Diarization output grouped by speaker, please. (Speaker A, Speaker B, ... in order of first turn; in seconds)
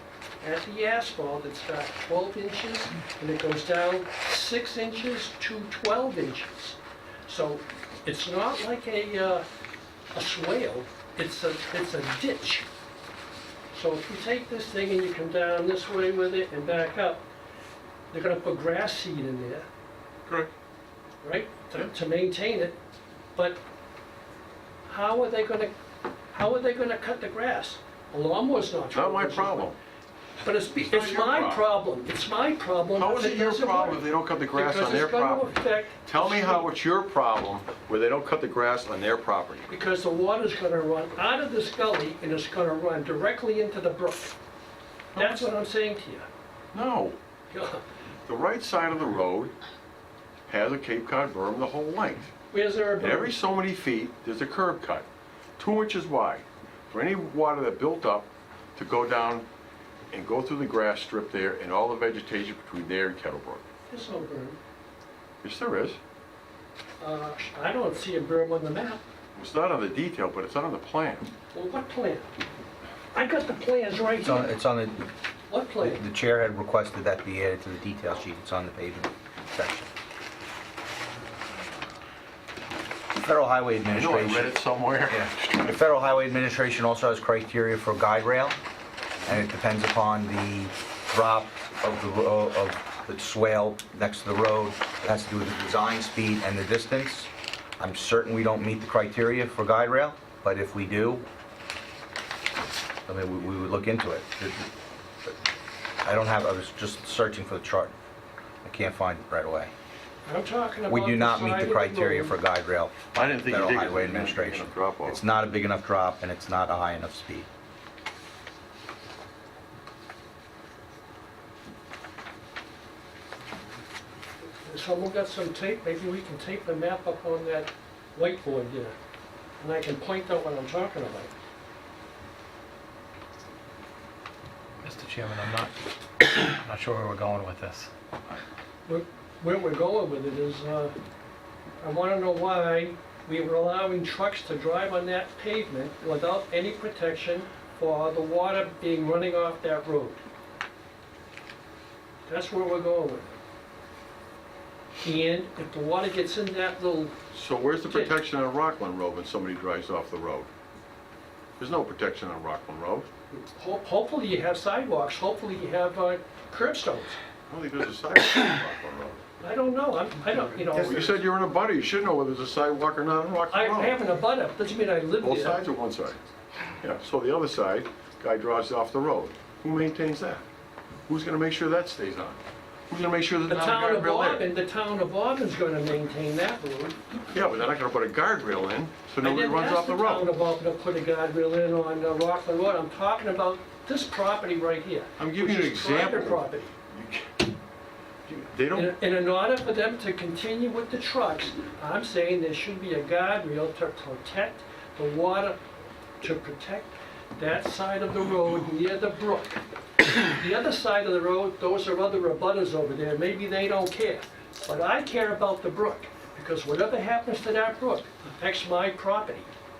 Speaker A: 0.4-9.4, 10.1-12.7, 13.7-17.2, 18.1-19.6, 21.2-22.7, 24.9-25.7, 26.3-29.7, 30.4-34.0, 34.5-36.7, 39.7-44.4, 45.1-46.3, 47.5-47.8, 52.5-53.3, 63.9-64.6, 67.0-69.0, 71.5-72.3, 73.1-74.5, 75.5-76.0, 110.2-112.3, 124.6-128.9, 129.6-131.3, 138.8-140.9, 141.8-150.2, 152.2-153.4, 155.0-157.1, 163.3-167.2, 169.4-171.2, 173.5-175.6, 183.5-187.0, 189.2-196.7, 198.7-205.6, 206.2-209.6, 210.2-219.5
Speaker B: 20.2-20.5, 28.9-29.8, 30.8-31.6, 33.0-35.5, 36.0-39.7, 45.1-45.5, 46.7-47.1, 48.2-49.5, 50.5-52.3, 53.0-55.1, 55.6-59.5, 60.1-63.6, 65.4-66.0, 69.3-71.3, 83.9-85.8, 113.1-115.2, 157.3-160.5, 161.6-163.1, 167.5-169.2, 170.6-174.0, 175.2-176.2, 176.8-180.4, 181.1-182.4, 182.9-184.4, 187.3-190.3, 195.2-197.4, 198.3-198.9
Speaker C: 74.2-75.1, 75.8-79.9, 83.2-84.5, 85.1-88.6, 89.2-101.2, 103.0-104.7, 106.0-107.9, 108.6-109.7, 110.9-117.5
Speaker D: 134.8-137.9